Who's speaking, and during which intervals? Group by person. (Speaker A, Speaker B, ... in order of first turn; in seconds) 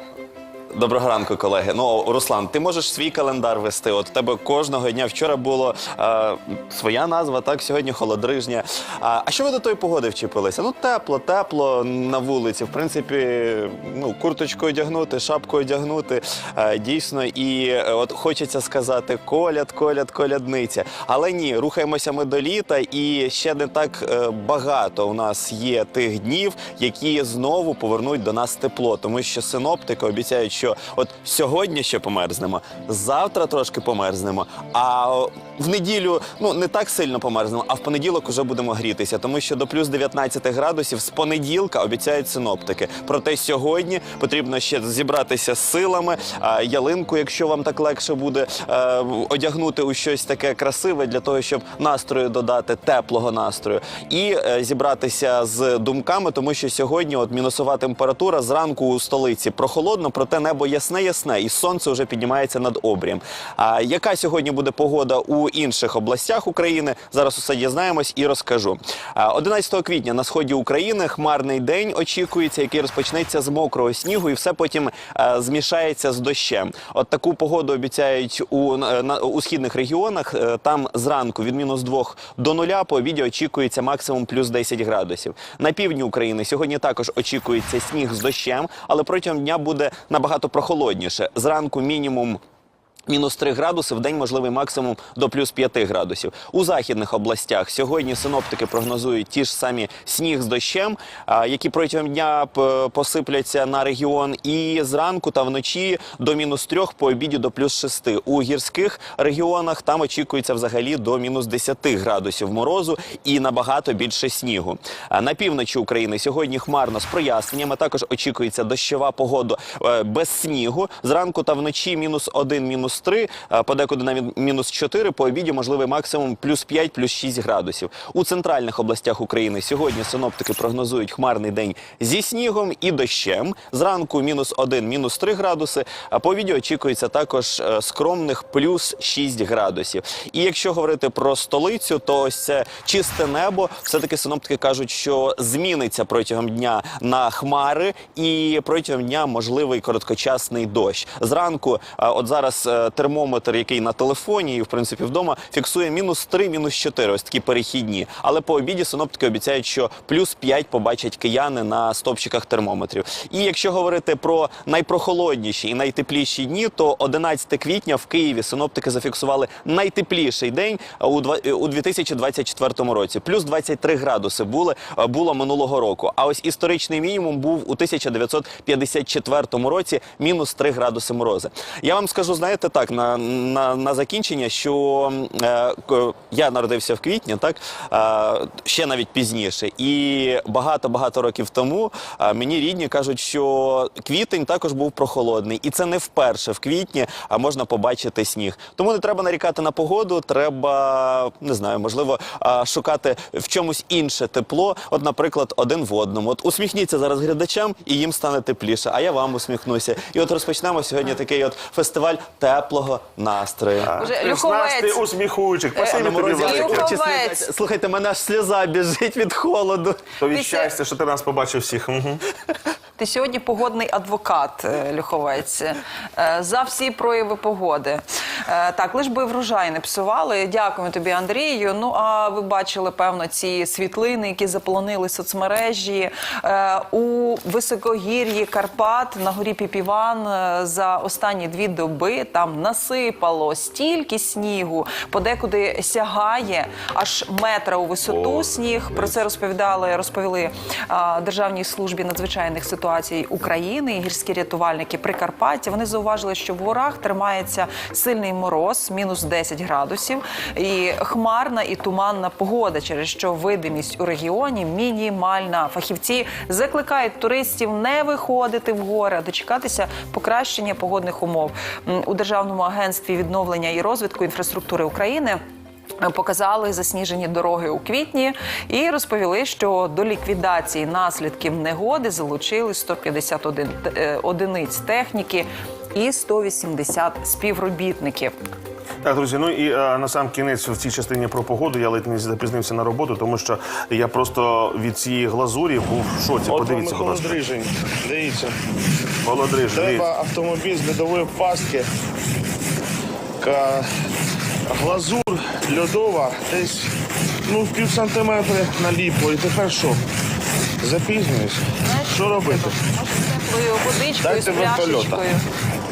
Speaker A: 0.7-92.4, 93.1-213.9, 215.8-220.1
Speaker B: 213.8-216.9, 220.2-222.2, 289.0-297.4, 299.2-300.1
Speaker C: 213.9-215.0, 215.8-217.5, 220.3-220.7, 223.0-275.4, 276.0-288.3, 311.8-315.4
Speaker D: 296.5-298.6, 299.7-301.9, 303.4-303.9, 304.7-306.9, 307.4-310.0, 310.8-312.8, 314.2-315.2